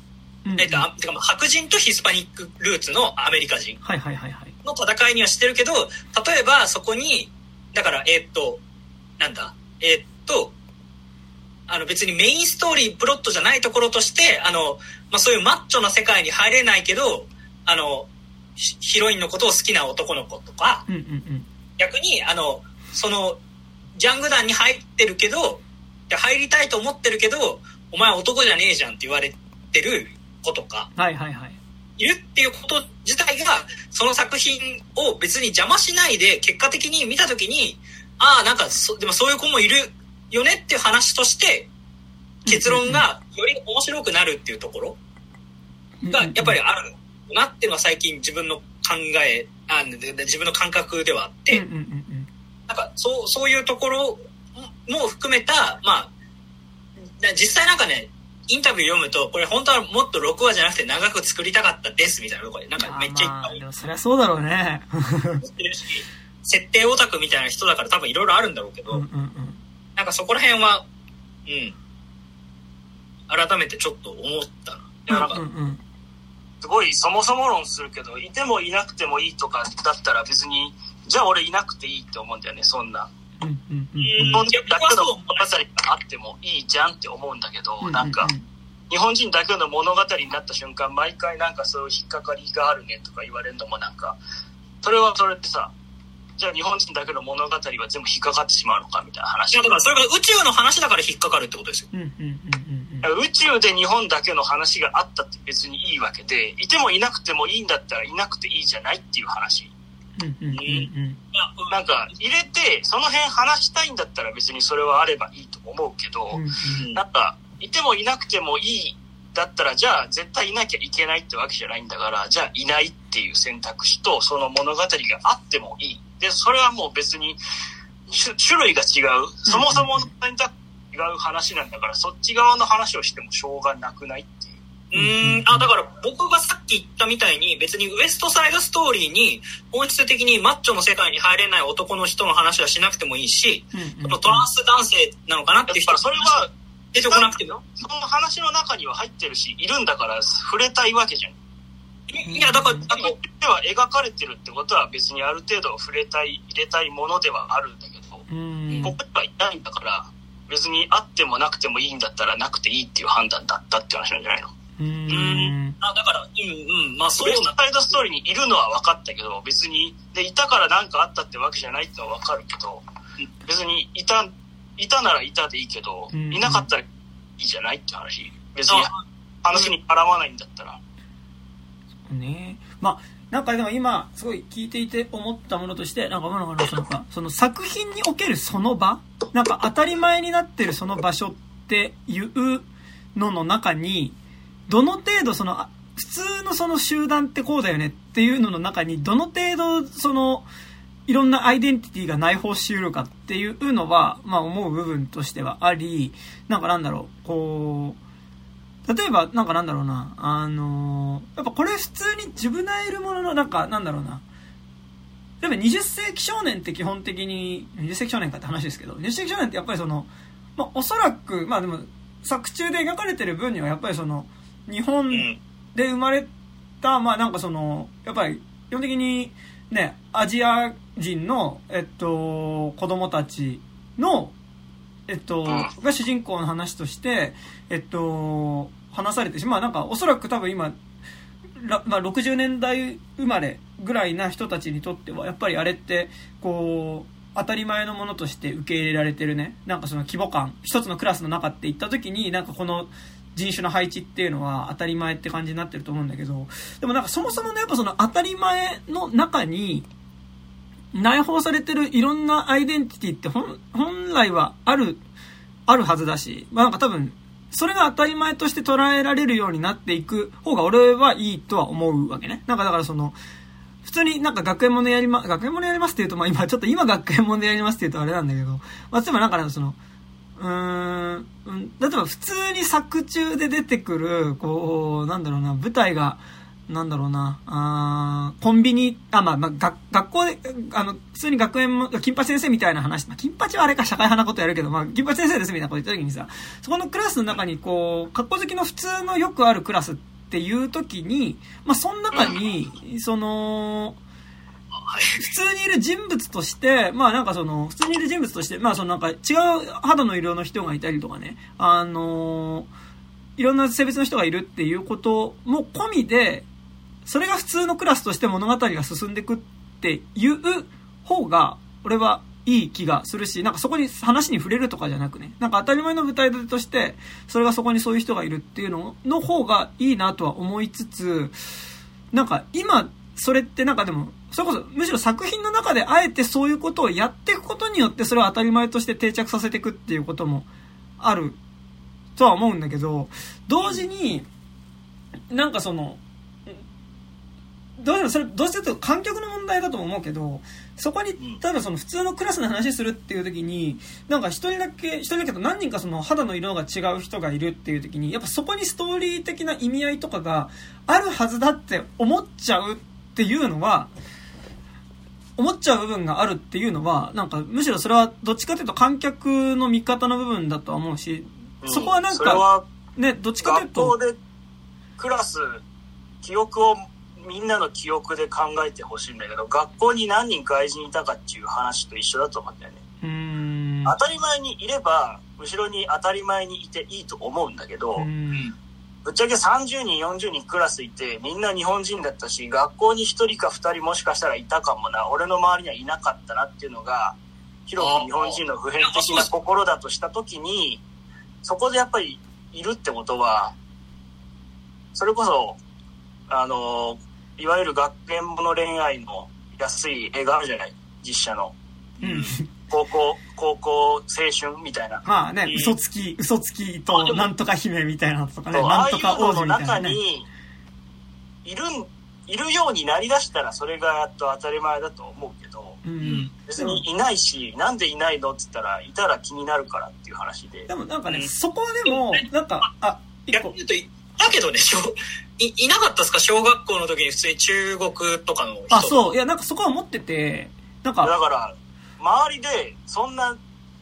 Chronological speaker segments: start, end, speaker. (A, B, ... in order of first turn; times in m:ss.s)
0:00.4-0:00.8 A
0:00.6-0:03.8 B
0:03.8-0:04.5 A
0:04.6-0:08.6 B
0:09.2-0:10.5 B
0:11.7-0:20.8 B
0:20.9-0:21.4 A
0:21.8-0:23.4 B
0:24.0-0:30.9 B
0:30.9-0:31.6 A
0:32.0-0:41.7 B
0:42.4-0:43.0 A
0:42.4-0:45.0 B
0:46.0-0:46.6 A
0:46.1-0:51.6 B
0:51.5-0:52.3 A
0:52.7-0:56.1 B
0:57.2-1:03.6 B
1:02.8-1:05.4 A
1:05.4-1:09.0 B
1:08.9-1:09.6 A
1:10.0-1:10.8 B
1:11.5-1:11.7 B
1:13.3-1:15.4 B
1:15.1-1:15.8 A
1:16.6-1:23.1 C
1:23.4-1:24.5 A
1:24.0-1:25.6 B
1:24.2-1:28.3 C
1:27.8-1:28.4 A
1:28.9-1:34.2 C
1:34.8-1:35.7 C
1:36.4-1:39.8 C
1:39.5-1:41.9 B
1:41.9-1:43.1 A
1:43.0-1:49.7 C
1:50.2-1:51.2 A
1:50.5-1:52.1 B
1:51.7-1:56.4 C
1:56.3-1:56.8 A
1:56.7-1:57.0 B
1:56.9-2:07.4 C
2:08.1-2:14.6 C
2:09.5-2:10.1 A
2:14.9-2:27.6 B
2:15.0-2:15.7 A
2:23.7-2:24.4 A
2:25.7-2:31.4 C
2:32.1-2:33.2 B
2:32.2-2:32.9 A
2:32.9-2:38.3 C
2:38.3-2:39.0 A
2:38.8-2:44.5 C
2:44.8-2:45.8 A
2:45.1-2:47.5 B
2:47.2-2:52.8 C
2:53.4-2:56.8 C
2:56.1-2:56.7 A
2:57.4-2:58.9 C
2:58.7-2:59.0 B
2:59.4-3:00.8 C
3:02.1-3:14.2 A
3:14.7-3:20.5 A
3:21.1-3:28.0 A
3:28.8-3:34.2 A
3:35.4-3:46.3 A
3:45.1-3:45.4 B
3:46.8-3:54.3 A
3:55.1-4:00.7 A
3:55.5-3:55.7 C
4:01.6-4:19.9 A
4:20.9-4:25.0 A
4:25.7-4:33.2 A
4:33.8-4:39.8 A
4:40.4-5:04.0 A
5:04.7-5:05.3 B
5:05.2-5:12.7 A
5:13.4-5:16.4 A
5:17.0-5:31.4 A
5:32.1-5:40.5 A
5:41.0-5:41.4 A
5:42.2-5:44.2 A
5:45.3-5:46.6 A
5:47.8-6:03.9 A
6:05.4-6:12.4 A
6:11.6-6:12.6 C
6:13.0-6:13.9 A
6:13.4-6:14.2 C
6:15.0-6:15.6 C
6:16.2-6:22.8 C
6:23.0-6:24.0 A
6:23.8-6:28.1 C
6:28.0-6:28.5 A
6:29.0-6:40.8 C
6:37.8-6:39.3 B
6:41.4-6:43.5 C
6:44.9-6:45.6 C
6:46.3-6:55.7 C
6:52.0-6:52.4 A
6:55.0-7:00.0 A
6:56.9-6:57.3 B
6:58.5-7:00.3 C
7:01.4-7:05.8 C
7:05.8-7:06.8 A
7:06.0-7:06.3 B
7:06.4-7:10.7 C
7:10.7-7:13.5 A
7:11.8-7:12.3 B
7:13.3-7:19.1 B
7:18.7-7:21.1 A
7:21.0-7:23.4 C